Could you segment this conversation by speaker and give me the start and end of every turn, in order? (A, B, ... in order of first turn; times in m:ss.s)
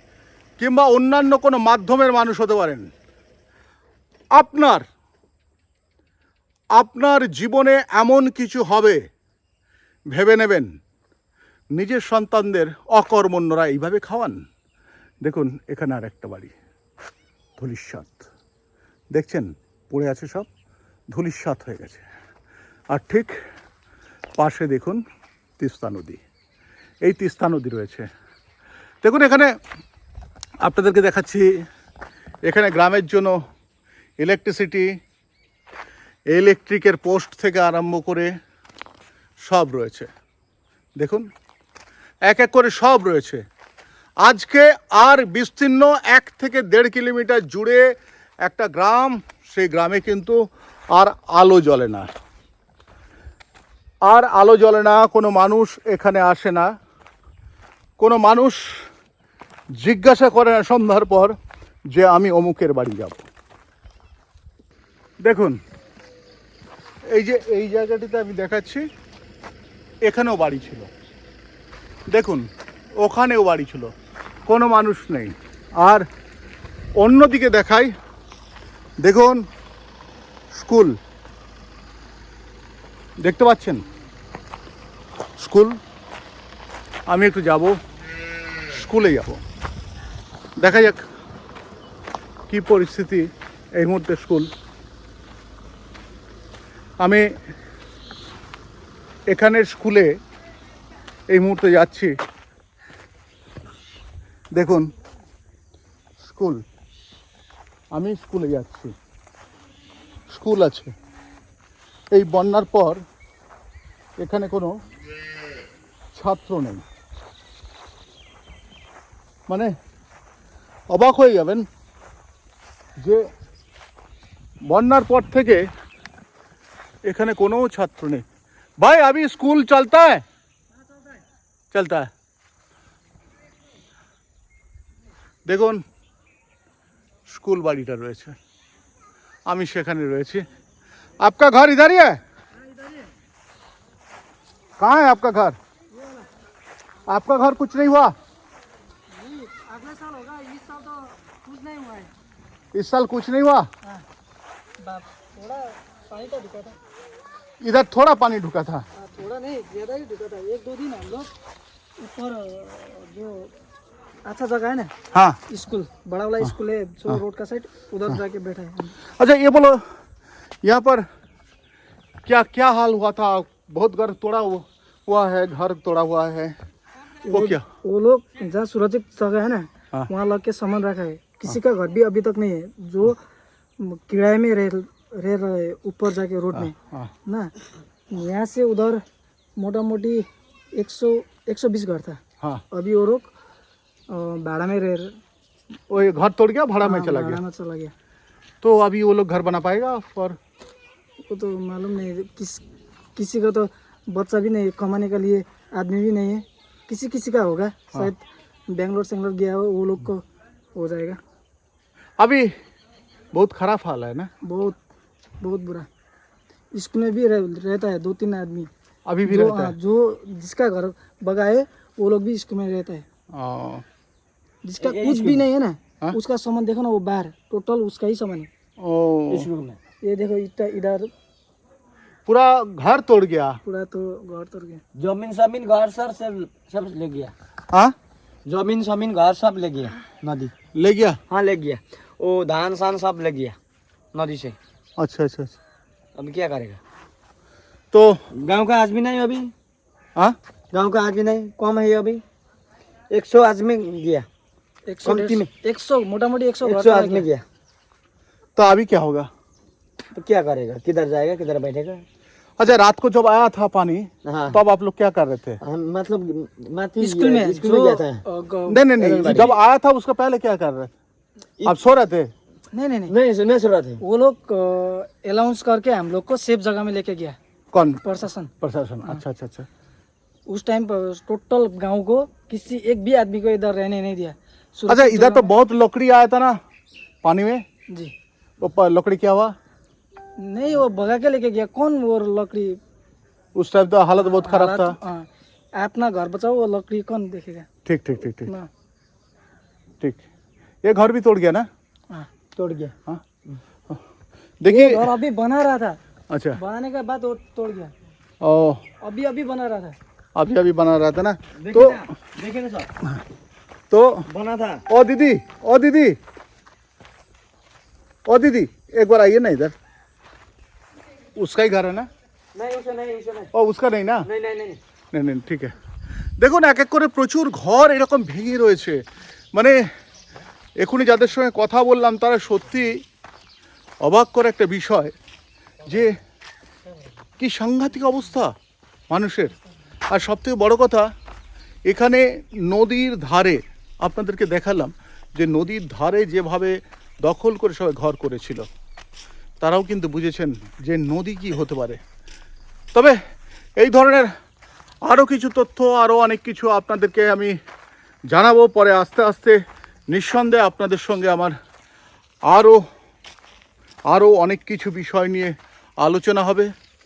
0:00.6-0:02.9 A
0:04.4-0:04.8 A
0:06.8-0:09.0 A
0:10.1-0:10.7 A
0:11.7-0:14.4 A
0:15.2-0:16.5 A
0:17.6-0:18.2 A
0:19.1-0:20.5 A
0:21.1-0:22.0 A
0:22.9-0:23.4 A
0:24.4-0:25.0 A
0:25.6-0:26.2 A
0:27.0-0:28.1 A
0:29.0-0:29.5 A
0:30.6-0:31.5 A
0:32.5-0:33.4 A
0:34.2-0:34.9 A
0:36.3-0:38.3 A
0:39.5-0:40.1 A
0:41.0-0:41.3 A
0:42.3-0:43.4 A
0:44.2-0:47.9 A
0:48.4-0:50.4 A
0:50.9-0:52.1 A
0:54.1-0:56.7 A
0:58.0-0:58.6 A
0:59.8-1:01.4 A
1:01.9-1:03.3 A
1:05.2-1:05.6 A
1:07.1-1:08.9 A
1:10.1-1:10.9 A
1:12.1-1:12.5 A
1:13.0-1:13.9 A
1:14.5-1:16.0 A
1:17.0-1:17.9 A
1:19.0-1:19.4 A
1:20.5-1:21.0 A
1:23.2-1:23.8 A
1:25.4-1:25.8 A
1:27.1-1:27.8 A
1:28.7-1:29.4 A
1:30.6-1:31.0 A
1:32.5-1:34.5 A
1:37.0-1:37.3 A
1:39.3-1:40.2 A
1:41.3-1:42.2 A
1:44.6-1:44.9 A
1:46.2-1:46.6 A
1:47.9-1:48.9 A
1:50.3-1:50.9 A
1:52.1-1:53.0 A
1:54.2-1:54.8 A
1:56.2-1:56.8 A
2:00.9-2:01.7 A
2:03.0-2:03.3 A
2:04.7-2:05.7 A
2:07.0-2:08.2 A
2:08.8-2:10.2 A
2:11.7-2:12.1 A
2:15.5-2:15.8 A
2:17.3-2:18.4 A
2:19.5-2:20.4 A
2:21.2-2:22.2 A
2:24.8-2:25.6 A
2:27.1-2:28.1 A
2:29.1-2:32.1 B
2:32.7-2:33.7 A
2:34.8-2:36.8 B
2:37.6-2:38.8 A
2:39.0-2:41.3 B
2:42.0-2:43.5 B
2:44.2-2:44.9 B
2:45.1-2:45.4 A
2:45.5-2:49.0 B
2:49.1-2:49.8 A
2:50.6-2:51.0 A
2:52.3-2:56.6 A
2:57.2-3:03.2 B
2:57.3-2:57.6 A
3:03.8-3:06.7 B
3:06.5-3:07.1 A
3:07.3-3:07.5 B
3:08.1-3:09.0 B
3:09.6-3:12.2 B
3:12.7-3:13.3 B
3:14.1-3:15.1 B
3:15.9-3:17.4 A
3:16.8-3:17.9 B
3:18.6-3:20.4 A
3:21.3-3:22.6 B
3:23.2-3:30.2 B
3:30.8-3:31.2 B
3:32.2-3:32.5 A
3:33.3-3:34.3 A
3:34.4-3:34.8 B
3:35.4-3:35.9 B
3:36.7-3:38.7 B
3:39.1-3:39.8 A
3:39.3-3:43.0 B
3:43.3-3:43.8 A
3:44.6-3:48.5 B
3:44.8-3:45.5 C
3:48.8-3:49.5 A
3:49.3-3:49.8 C
3:50.0-3:51.1 B
3:52.3-3:53.6 A
3:53.6-3:54.8 B
3:55.0-3:57.3 C
3:58.5-4:00.5 C
4:00.8-4:01.2 A
4:01.3-4:03.6 C
4:04.1-4:04.6 C
4:05.0-4:05.6 A
4:06.2-4:06.8 C
4:07.9-4:08.2 A
4:08.3-4:09.5 C
4:10.7-4:12.2 C
4:13.1-4:14.3 C
4:14.9-4:17.3 B
4:15.0-4:15.5 C
4:16.6-4:17.4 C
4:18.6-4:19.3 A
4:20.1-4:22.0 C
4:22.6-4:25.6 A
4:24.2-4:24.6 C
4:25.6-4:28.2 C
4:27.0-4:29.4 B
4:28.7-4:31.0 A
4:29.0-4:29.5 C
4:31.6-4:32.3 A
4:32.7-4:33.1 B
4:33.1-4:34.0 C
4:34.0-4:37.4 B
4:37.7-4:38.0 A
4:38.0-4:38.5 B
4:38.6-4:39.7 A
4:40.5-4:45.5 B
4:44.9-4:46.6 A
4:47.2-4:47.6 A
4:48.6-4:49.5 A
4:50.4-4:52.8 B
4:53.6-4:54.9 A
4:54.2-4:57.7 B
4:57.8-4:58.5 A
4:58.3-4:58.7 B
5:00.8-5:01.7 A
5:02.6-5:02.9 C
5:04.6-5:05.1 A
5:04.7-5:06.0 B
5:06.3-5:06.6 A
5:06.6-5:07.9 B
5:08.4-5:08.8 A
5:09.0-5:10.0 B
5:10.4-5:12.0 A
5:11.6-5:12.9 C
5:13.9-5:14.3 A
5:14.3-5:14.8 C
5:14.9-5:16.2 A
5:18.3-5:19.7 A
5:21.4-5:22.1 A
5:22.6-5:23.5 C
5:23.5-5:24.3 A
5:24.2-5:24.8 C
5:25.1-5:25.7 A
5:26.4-5:29.0 A
5:29.5-5:29.8 A
5:30.8-5:33.0 A
5:34.0-5:35.1 A
5:35.8-5:36.2 A
5:37.4-5:38.5 A
5:39.1-5:39.6 A
5:40.1-5:41.1 A
5:41.9-5:48.7 A
5:49.6-5:52.0 A
5:53.8-5:54.3 A
5:55.0-5:57.5 A
5:58.3-5:59.6 A
6:00.1-6:01.5 A
6:02.5-6:02.8 A
6:04.1-6:06.7 A